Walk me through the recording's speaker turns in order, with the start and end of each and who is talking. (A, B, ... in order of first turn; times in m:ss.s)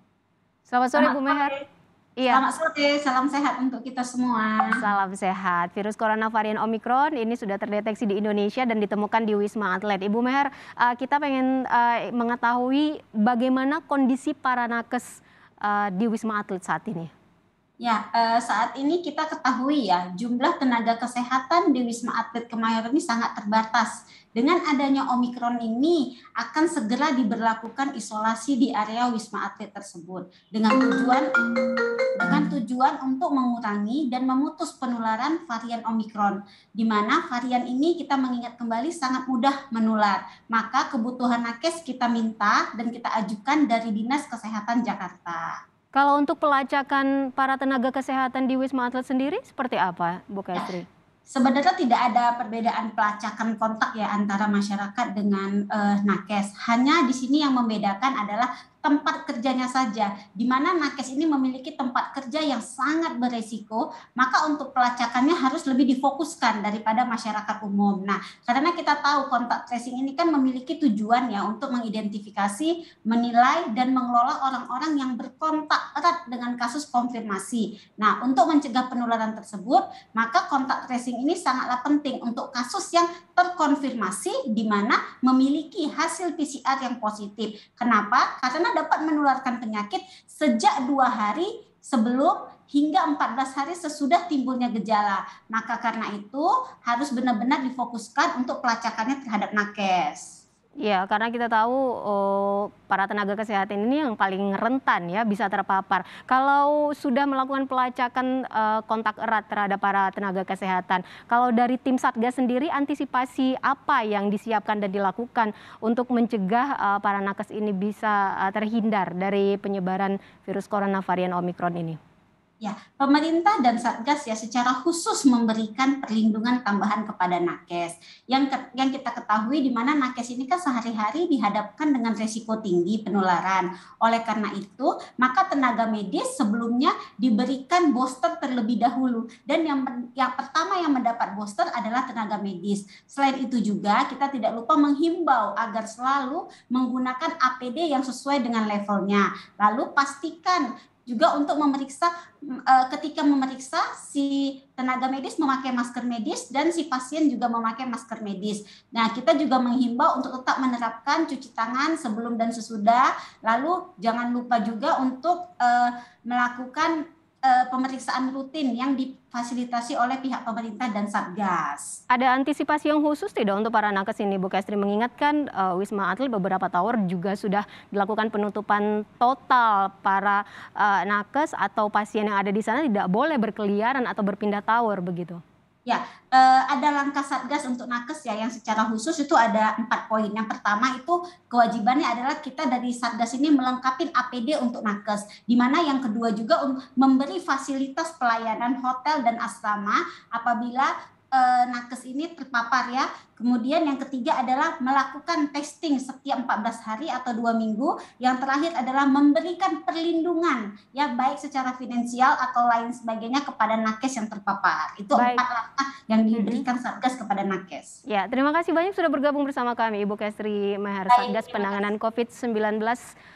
0:00.7-0:01.5 A
0:01.0-0:01.6 B
0:02.2-0:02.4 A
0:02.3-0:04.8 B
0:04.7-0:17.1 A
0:17.8-0:31.3 B
0:32.2-0:45.6 B
0:45.9-0:50.8 A
0:51.3-1:40.4 B
1:40.8-2:02.0 A
2:02.6-2:52.0 B
2:52.1-3:05.4 A
3:05.8-3:38.0 B
3:35.1-3:35.4 A
3:36.3-3:36.6 A
3:38.1-3:43.0 A
3:41.1-3:41.9 B